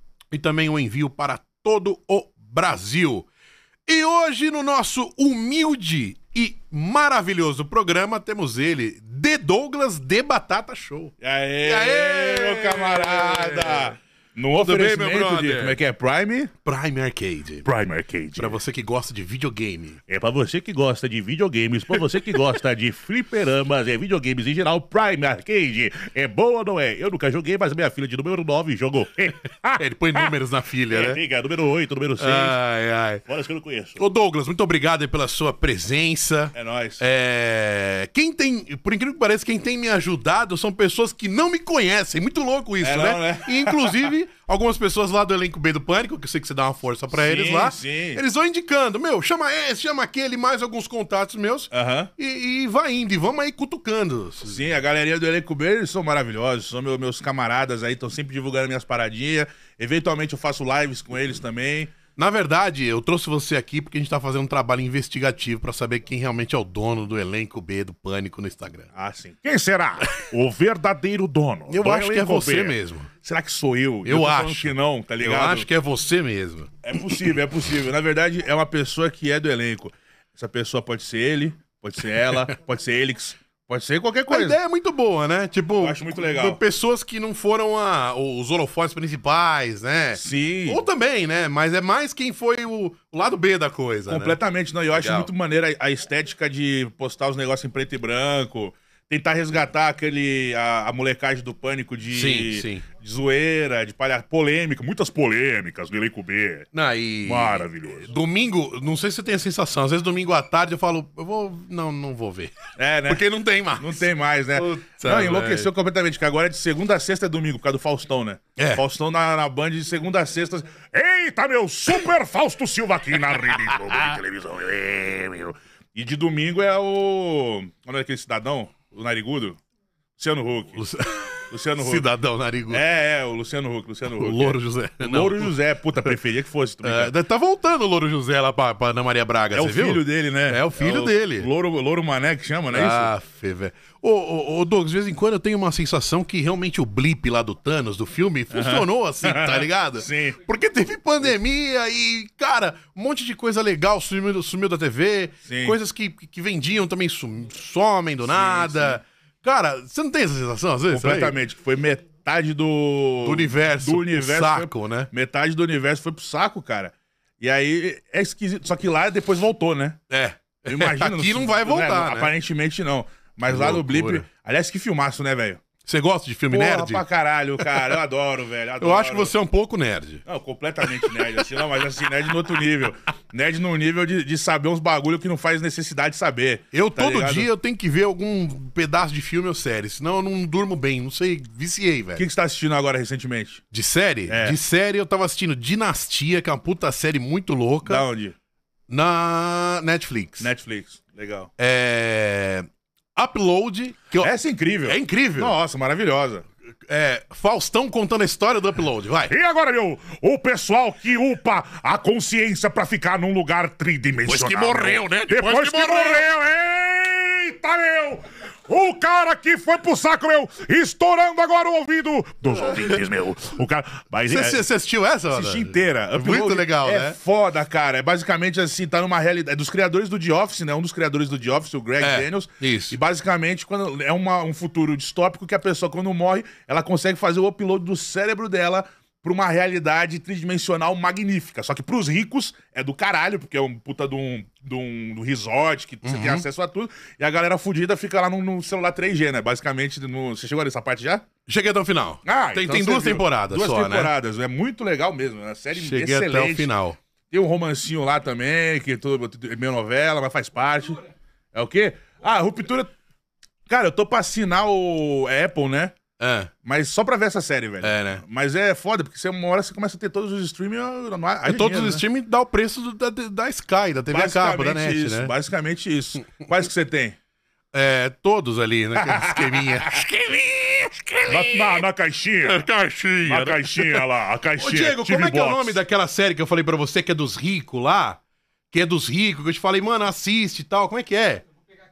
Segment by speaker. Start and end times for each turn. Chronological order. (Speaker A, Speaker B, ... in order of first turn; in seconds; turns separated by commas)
Speaker A: 0.3-3.3, Speaker A: 3.9-13.9, Speaker B: 11.2-16.5, Speaker A: 14.5-15.8, Speaker A: 16.6-17.7, Speaker B: 17.6-18.6, Speaker A: 18.4-20.0, Speaker B: 20.1-30.3, Speaker A: 29.8-31.2, Speaker B: 30.9-32.6, Speaker A: 32.2-33.2, Speaker B: 33.3-34.0, Speaker A: 34.0-54.6, Speaker B: 36.5-37.0, Speaker B: 42.8-44.1, Speaker B: 47.1-48.2, Speaker B: 51.7-52.1, Speaker B: 54.5-61.9, Speaker A: 62.2-68.9, Speaker B: 68.9-75.7, Speaker A: 71.7-73.1, Speaker A: 74.0-76.7, Speaker B: 76.8-84.6, Speaker A: 84.3-94.4, Speaker B: 85.8-86.6, Speaker B: 90.2-90.8, Speaker B: 94.1-106.7, Speaker A: 94.9-95.3, Speaker A: 102.1-102.8, Speaker A: 106.7-115.7, Speaker B: 107.2-108.1, Speaker B: 112.8-113.2, Speaker B: 113.8-129.6, Speaker A: 118.6-118.8, Speaker B: 130.2-130.8, Speaker A: 130.8-132.8, Speaker B: 131.5-132.1, Speaker B: 132.7-137.1, Speaker A: 134.1-135.5, Speaker A: 136.8-141.5, Speaker B: 139.5-143.1, Speaker A: 142.7-161.4, Speaker B: 148.5-150.4, Speaker B: 155.5-155.8, Speaker B: 158.2-159.0, Speaker B: 160.9-170.0, Speaker A: 163.2-165.1, Speaker A: 170.1-172.3, Speaker B: 170.7-175.6, Speaker A: 173.5-174.3, Speaker A: 175.8-177.0, Speaker B: 176.5-179.3, Speaker A: 178.8-180.2, Speaker B: 180.3-187.5, Speaker A: 180.8-181.2, Speaker A: 186.7-192.2, Speaker B: 192.2-193.6, Speaker A: 193.7-198.0, Speaker B: 194.3-194.6, Speaker B: 197.8-198.3, Speaker A: 198.9-200.5, Speaker B: 200.4-201.5, Speaker A: 201.6-204.3, Speaker B: 204.2-206.4, Speaker A: 204.8-205.6, Speaker A: 206.9-209.3, Speaker B: 209.3-224.7, Speaker A: 214.2-216.2, Speaker A: 224.3-227.2, Speaker B: 225.3-251.3, Speaker A: 232.0-233.0, Speaker A: 246.0-246.4, Speaker A: 251.5-254.1, Speaker B: 252.2-256.7, Speaker A: 255.8-257.0, Speaker B: 257.3-261.0, Speaker B: 261.5-262.9, Speaker B: 263.7-266.0, Speaker A: 266.2-266.5, Speaker B: 266.6-272.0, Speaker A: 267.8-268.2, Speaker A: 271.4-275.3, Speaker B: 274.1-277.2, Speaker A: 277.7-281.8, Speaker B: 278.9-280.0, Speaker B: 281.3-282.6, Speaker A: 282.4-288.2, Speaker B: 283.3-285.8, Speaker A: 288.7-291.4